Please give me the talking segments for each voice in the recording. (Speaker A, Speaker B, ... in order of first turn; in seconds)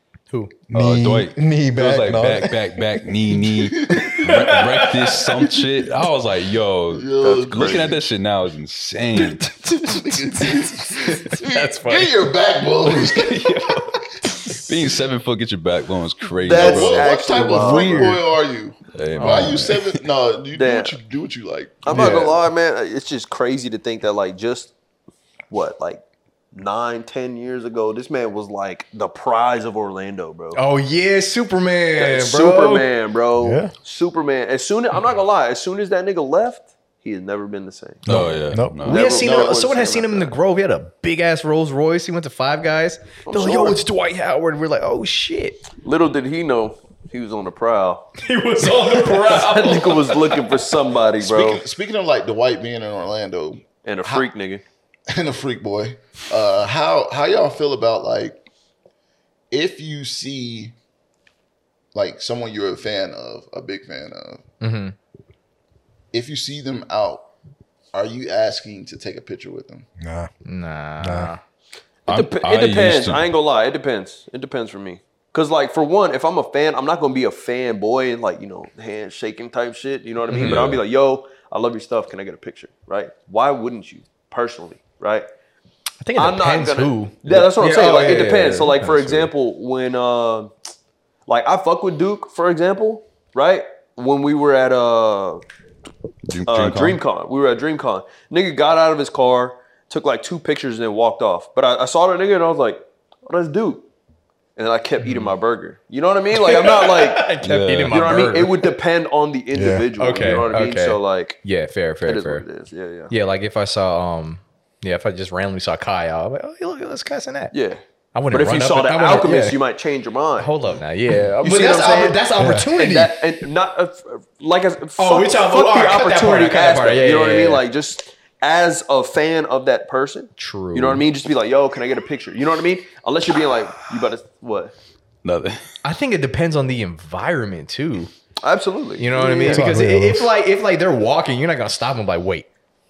Speaker A: 0.3-0.6, 4.1-5.2, 9.9-12.3, 12.8-13.8, 19.2-19.6, 30.6-32.9, 38.9-45.6, 48.2-50.4, 64.6-65.0, 70.5-71.4, 80.3-80.7, 86.0-89.3, 106.4-108.7, 110.0-112.5, 113.1-117.5, 118.2-119.6, 120.4-123.1, 125.0-127.6, 130.4-131.0, 135.8-138.1, 139.0-142.5
Speaker B: 0.7-2.7, 21.9-22.3, 33.4-33.7, 38.0-38.9, 70.0-70.3, 71.0-71.3, 109.5-109.9, 122.4-122.7, 139.4-140.3
Speaker C: 0.7-9.8, 14.5-17.6, 18.9-19.9, 38.1-39.1, 72.1-73.3, 80.4-80.8, 96.3-97.0, 107.4-108.3, 135.2-135.6
Speaker D: 3.6-4.6, 6.9-8.0, 9.8-14.0, 16.5-22.3, 39.2-39.5, 51.2-54.3, 55.1-58.4, 59.5-60.8, 61.9-64.4, 66.1-67.2, 67.9-69.9
Speaker E: 7.2-8.0, 16.4-18.2, 20.6-21.0, 21.8-24.7, 25.5-26.0, 26.5-30.6, 32.0-38.1, 38.9-40.3, 43.3-43.8, 45.8-48.1, 48.6-51.6, 53.9-54.6, 72.1-85.3, 86.2-90.5, 91.3-95.4, 96.5-103.9, 104.6-107.3, 107.9-111.4, 112.0-113.1, 117.5-120.5, 121.4-134.7, 138.4-139.7